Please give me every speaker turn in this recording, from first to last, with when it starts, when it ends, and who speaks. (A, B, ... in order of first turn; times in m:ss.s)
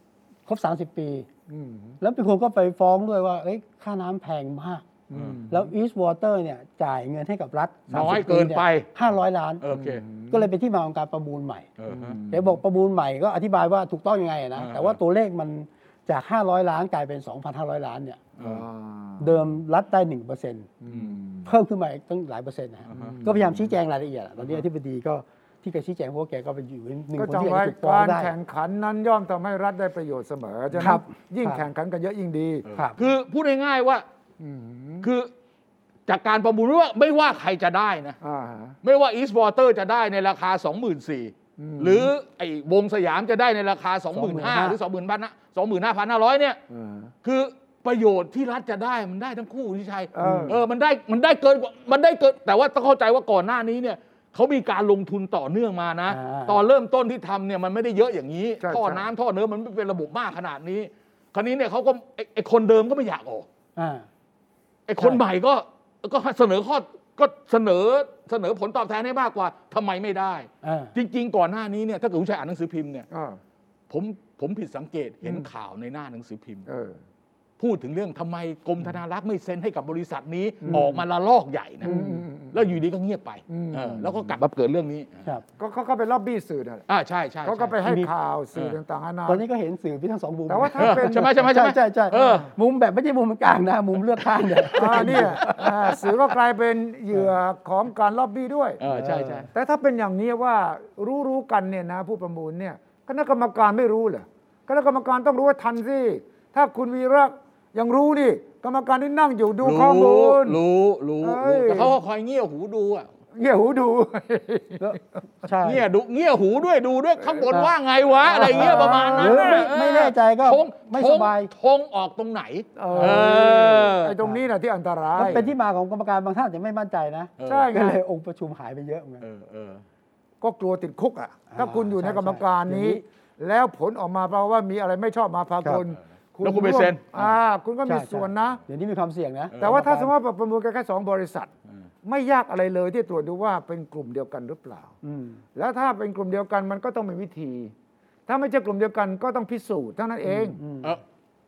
0:00.5-0:01.3 A
0:01.5-0:02.0 B
0:02.0-0:04.8 A
0:05.1-0:05.7 B
0:05.1-0:05.4 C
0:05.5-0:09.6 A
0:07.9-0:08.9 C
0:09.6-0:10.0 C
0:09.7-0:10.4 B
0:10.3-0:11.7 A
0:11.8-0:12.2 C
0:11.9-0:12.6 B
0:12.3-0:18.2 A
0:14.6-0:15.0 C
0:18.4-0:18.6 C
0:18.4-0:19.3 B
0:19.2-0:20.7 A
0:20.8-0:21.5 B
0:20.9-0:21.2 C
0:21.4-0:28.3 A
0:22.9-0:23.2 C
0:22.9-0:23.6 B
0:27.2-0:32.6 B
0:30.8-0:31.6 A
0:32.7-0:34.0 C
0:34.4-0:35.1 B
0:35.0-0:35.3 C
0:36.1-0:38.2 C
0:38.2-0:38.8 B
0:38.8-0:46.6 C
0:41.6-0:42.1 B
0:44.1-0:44.8 A
0:46.7-0:47.1 B
0:47.2-1:03.5 C
0:50.1-0:50.6 B
0:50.2-0:50.6 A
0:56.1-0:56.6 A
0:58.6-0:59.1 B
1:03.8-1:04.1 A
1:04.9-1:13.1 C
1:10.6-1:10.9 A
1:13.1-1:13.4 B
1:13.9-1:16.7 C
1:16.7-1:17.0 B
1:17.6-1:21.9 C
1:20.7-1:21.0 A
1:21.8-1:22.3 A
1:21.8-1:22.6 B
1:22.5-1:25.2 C
1:23.5-1:24.2 B
1:25.6-1:26.9 B
1:26.9-1:27.8 C
1:27.4-1:29.4 B
1:27.8-1:28.1 A
1:29.3-1:35.9 A
1:30.5-1:31.3 B
1:30.8-1:32.5 C
1:32.2-1:32.5 B
1:34.6-1:35.4 C
1:34.8-1:38.8 B
1:38.8-1:39.5 C
1:38.9-1:39.5 A
1:39.5-1:50.6 B
1:49.6-1:53.1 C
1:51.2-1:52.0 B
1:53.3-1:55.0 B
1:54.8-1:55.8 A
1:55.6-2:04.2 C
1:58.3-1:59.7 B
1:58.3-2:01.5 A
2:02.8-2:05.5 B
2:02.9-2:03.5 A
2:05.2-2:09.2 A
2:07.4-2:07.7 C
2:07.4-2:08.0 B
2:09.2-2:09.8 C
2:10.4-2:18.6 B
2:11.5-2:13.0 A
2:16.4-2:17.2 C
2:17.9-2:20.1 A
2:19.5-2:19.8 C
2:19.6-2:21.5 B
2:22.0-2:24.9 B
2:25.0-2:25.4 A
2:25.6-2:27.7 B
2:28.3-2:30.6 B
2:30.3-2:31.0 A